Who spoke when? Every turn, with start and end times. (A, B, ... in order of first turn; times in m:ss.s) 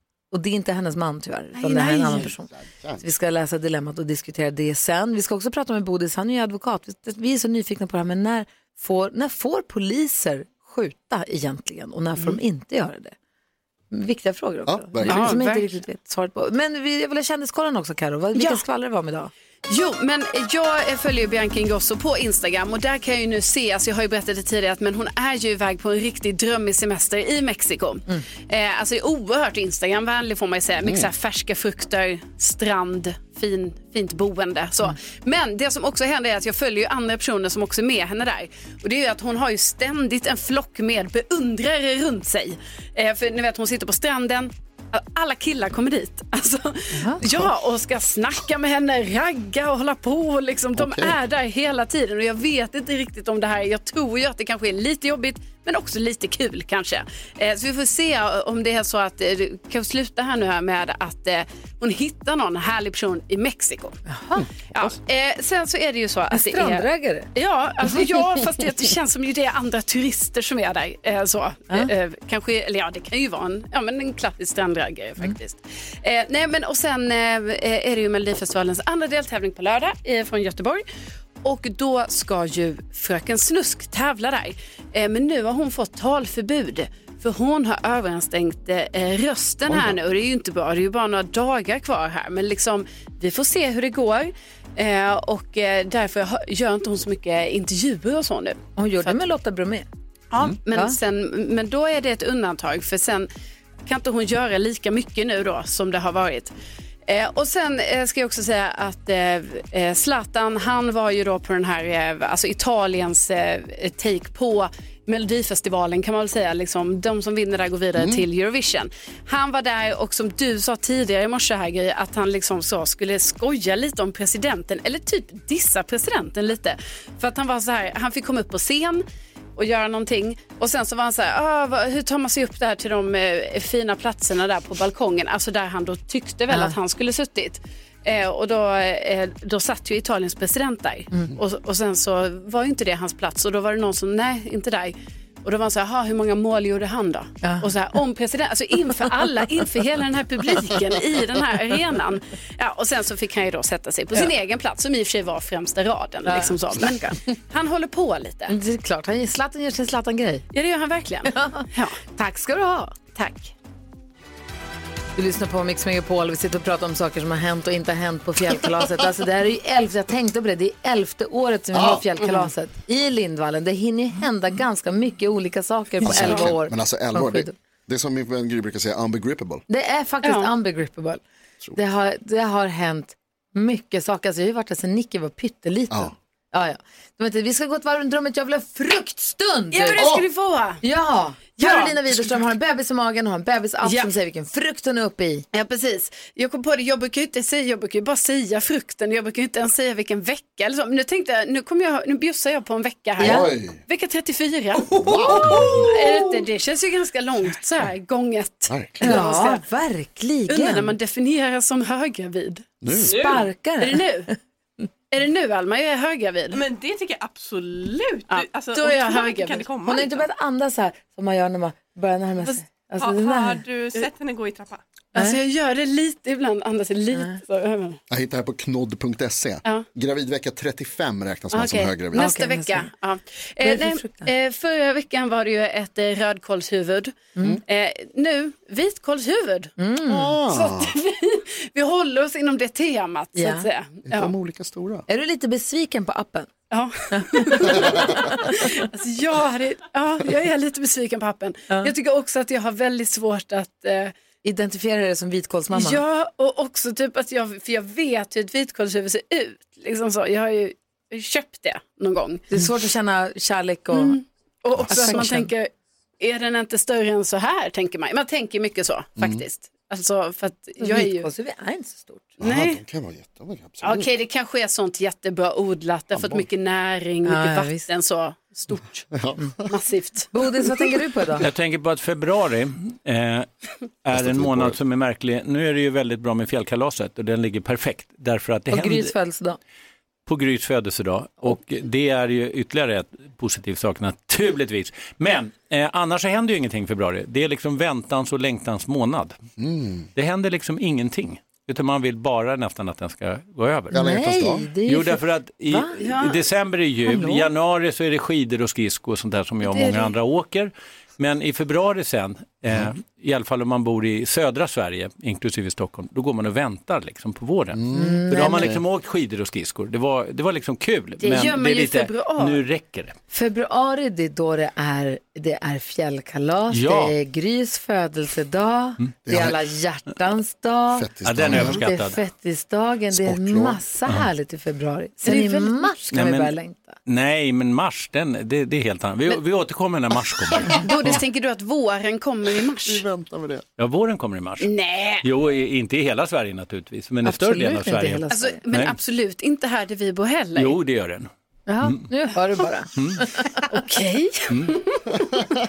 0:00.3-0:13.1 A
0:01.5-0:02.3 B
0:02.1-0:03.0 C
0:13.9-0:19.3 A
0:14.6-0:15.3 C
0:15.0-0:15.8 B
0:18.3-0:18.6 B
0:19.7-1:04.0 B
0:30.8-0:31.1 C
0:46.9-0:47.2 A
0:50.8-0:51.2 C
1:04.1-1:04.9 A
1:04.7-1:20.8 B
1:06.3-1:07.3 A
1:21.4-1:39.2 B
1:29.7-1:30.0 C
1:38.8-1:39.8 A
1:40.3-1:43.3 B
1:40.7-1:41.0 A
1:43.8-1:46.5 B
1:47.0-2:09.0 B
1:58.0-1:58.2 C
2:09.6-2:38.5 B
2:27.4-2:27.7 A
2:36.2-2:36.8 A
2:38.5-2:40.4 A
2:40.5-2:42.0 B
2:41.3-2:43.0 A
2:43.1-2:43.5 B
2:45.2-2:57.5 A
2:51.7-2:52.0 C
2:56.0-2:56.5 B
2:56.0-2:59.6 C
2:59.7-3:01.2 A
3:00.2-3:00.5 B
3:01.7-3:10.0 A
3:09.7-3:10.8 B
3:10.0-3:10.2 C
3:10.8-3:15.4 A
3:11.6-3:12.0 B
3:13.8-3:14.1 B
3:15.5-3:29.6 B
3:23.2-3:23.8 C
3:23.2-3:23.5 A
3:24.9-3:25.9 C
3:25.1-3:26.2 A
3:28.7-3:29.2 C
3:29.0-3:30.9 A
3:30.5-3:32.7 B
3:32.8-3:33.1 C
3:32.9-3:34.3 A
3:33.0-3:33.5 D
3:33.8-3:34.3 B
3:35.1-3:36.6 B
3:36.5-3:40.2 D
3:38.3-3:39.7 B
3:39.8-3:43.6 A
3:43.0-3:44.8 D
3:45.1-3:48.0 B
3:48.1-3:52.3 C
3:51.5-3:59.7 B
3:52.1-3:52.9 A
3:53.6-3:54.3 A
3:57.3-3:57.6 A
3:59.8-4:00.4 A
4:00.0-4:01.0 C
4:00.5-4:04.3 B
4:03.3-4:03.7 A
4:04.0-4:05.0 C
4:05.1-4:06.5 A
4:06.7-4:14.1 B
4:07.1-4:08.8 A
4:07.7-4:08.0 C
4:14.4-4:16.0 A
4:15.7-4:22.4 B
4:22.5-4:24.2 A
4:23.9-4:31.3 B
4:24.9-4:25.5 A
4:29.2-4:29.4 C
4:30.8-4:32.4 A
4:32.4-4:32.8 B
4:32.4-4:34.1 C
4:33.8-4:40.3 B
4:36.1-4:36.5 C
4:37.2-4:37.9 A
4:39.1-4:39.7 C
4:40.3-4:41.4 A
4:41.4-4:43.5 E
4:44.0-4:49.1 E
4:44.1-4:44.8 C
4:48.7-4:49.6 A
4:50.2-4:59.4 E
4:59.6-5:00.1 C
5:00.1-5:04.0 E
5:03.9-5:04.7 C
5:03.9-5:06.0 A
5:04.8-5:23.2 E
5:06.0-5:06.5 B
5:07.0-5:07.5 A
5:09.6-5:10.1 A
5:17.7-5:18.8 C
5:17.9-5:18.8 A
5:21.2-5:22.6 B
5:23.3-5:37.0 A
5:26.7-5:27.1 E
5:29.2-5:29.6 C
5:30.9-5:31.8 C
5:31.2-5:32.2 E
5:33.1-5:33.8 C
5:35.2-5:35.9 B
5:36.1-5:36.5 E
5:37.0-5:40.8 E
5:40.8-5:43.0 B
5:42.8-5:43.6 C
5:43.8-5:44.7 E
5:44.6-5:45.2 B
5:45.2-5:49.0 E
5:47.2-5:48.6 A
5:48.3-5:50.8 B
5:50.6-5:51.3 E
5:51.7-5:53.6 A
5:53.7-5:55.2 B
5:55.2-5:55.4 C